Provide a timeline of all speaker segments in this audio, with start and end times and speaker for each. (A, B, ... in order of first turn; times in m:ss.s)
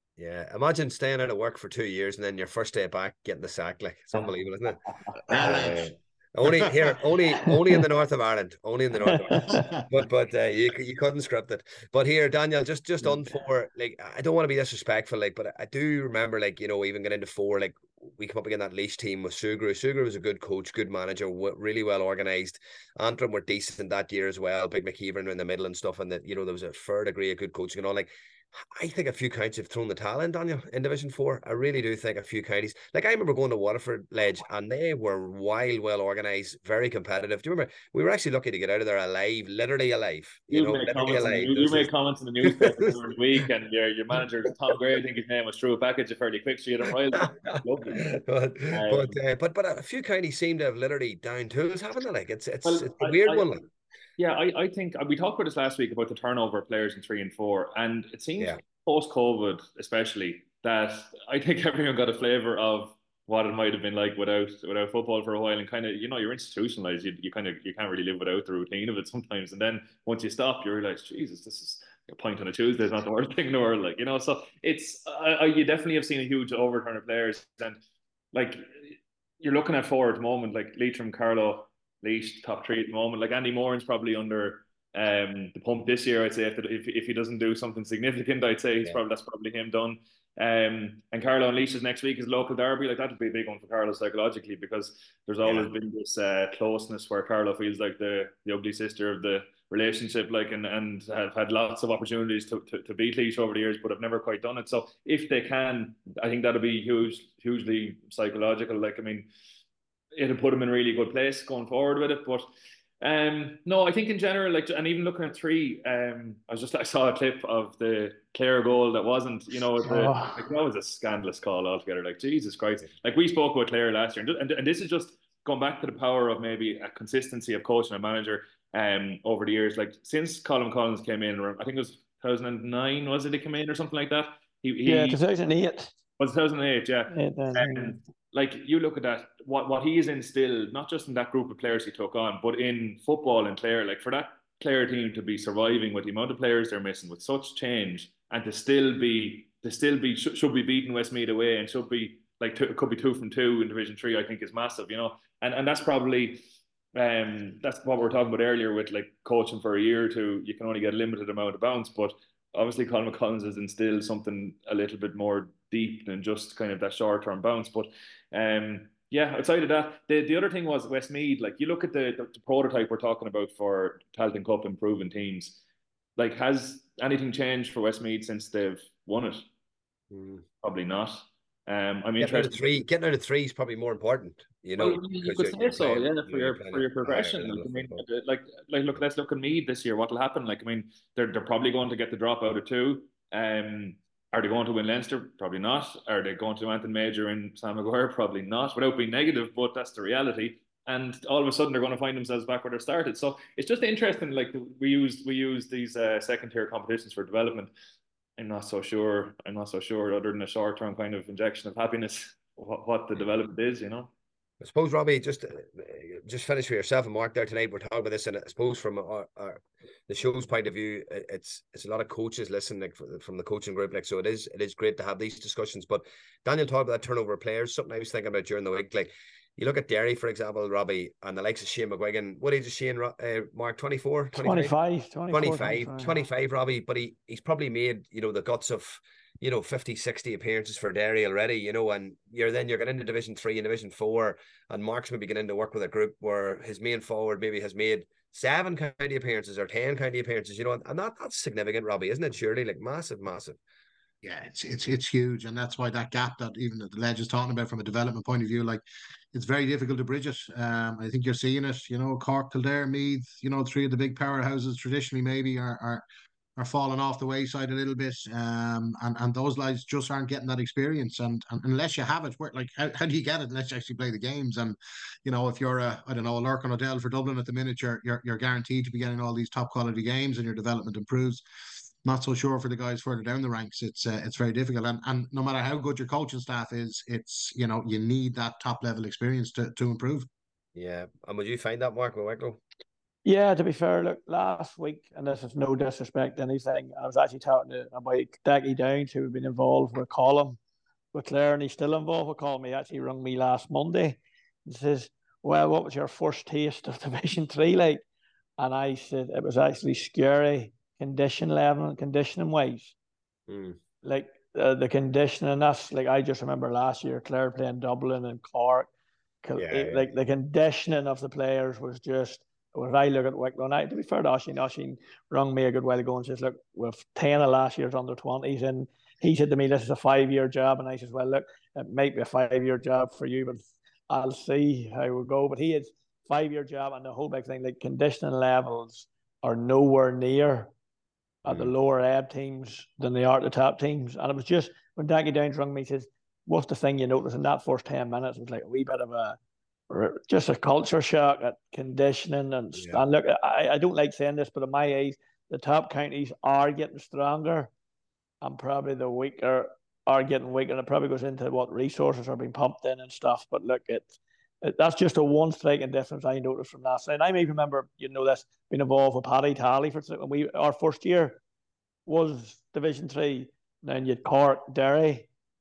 0:00.2-0:41.9 A
0:05.3-0:05.9 B
0:06.4-0:06.9 B
0:09.3-0:09.6 C
0:09.5-0:09.8 B
0:40.5-0:48.1 D
0:42.4-0:43.0 A
0:47.1-0:53.6 A
0:48.7-0:49.2 D
0:52.6-0:53.4 D
0:54.2-1:17.8 D
1:18.3-1:49.3 D
1:50.1-1:52.4 D
1:53.0-2:15.2 D
1:59.8-2:00.4 C
2:14.8-2:15.9 C
2:16.2-2:36.4 D
2:17.1-2:18.0 C
2:36.9-2:55.6 D
2:56.2-2:59.5 D
3:00.1-3:00.4 A
3:00.6-3:02.8 D
3:02.2-3:08.0 A
3:04.8-3:27.7 D
3:28.4-3:34.1 D
3:34.6-3:54.7 A
3:54.3-3:56.2 C
3:55.3-4:13.6 A
4:14.2-4:26.0 B
4:26.6-4:41.4 B
4:42.0-4:50.3 B
4:50.7-4:52.6 A
4:53.2-5:00.6 C
5:01.1-5:08.0 C
5:08.6-5:12.9 C
5:13.5-5:13.8 A
5:14.0-5:18.9 C
5:19.4-5:40.7 C
5:19.6-5:20.0 A
5:41.4-5:49.4 C
5:41.5-5:41.7 A
5:49.9-5:57.7 C
5:52.7-5:53.0 A
5:58.4-6:11.4 C
6:12.0-6:15.3 C